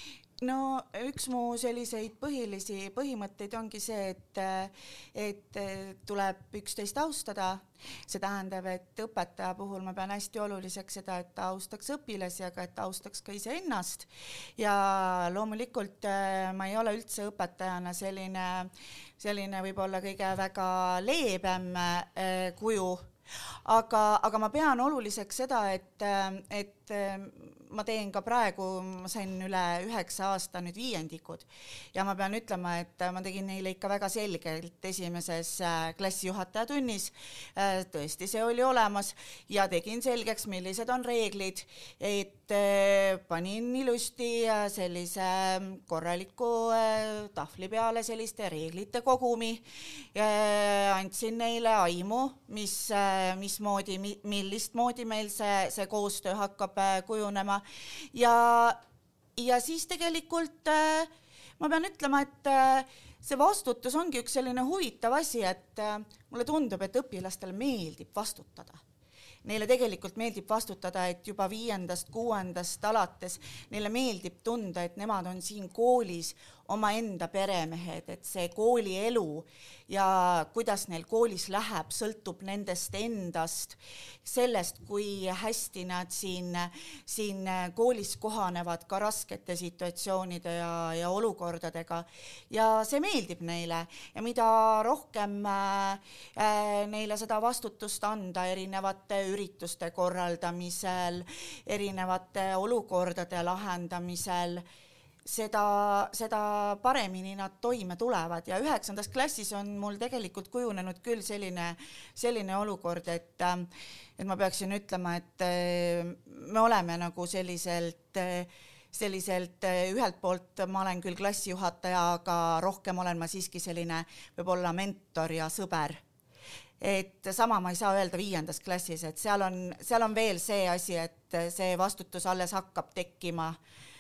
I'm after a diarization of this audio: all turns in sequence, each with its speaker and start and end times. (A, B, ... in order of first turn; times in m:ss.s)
0:00.4-0:23.1 A
0:23.6-0:58.8 A
0:59.4-1:08.8 A
1:09.4-1:44.6 A
1:45.2-2:06.0 A
2:06.8-2:13.6 A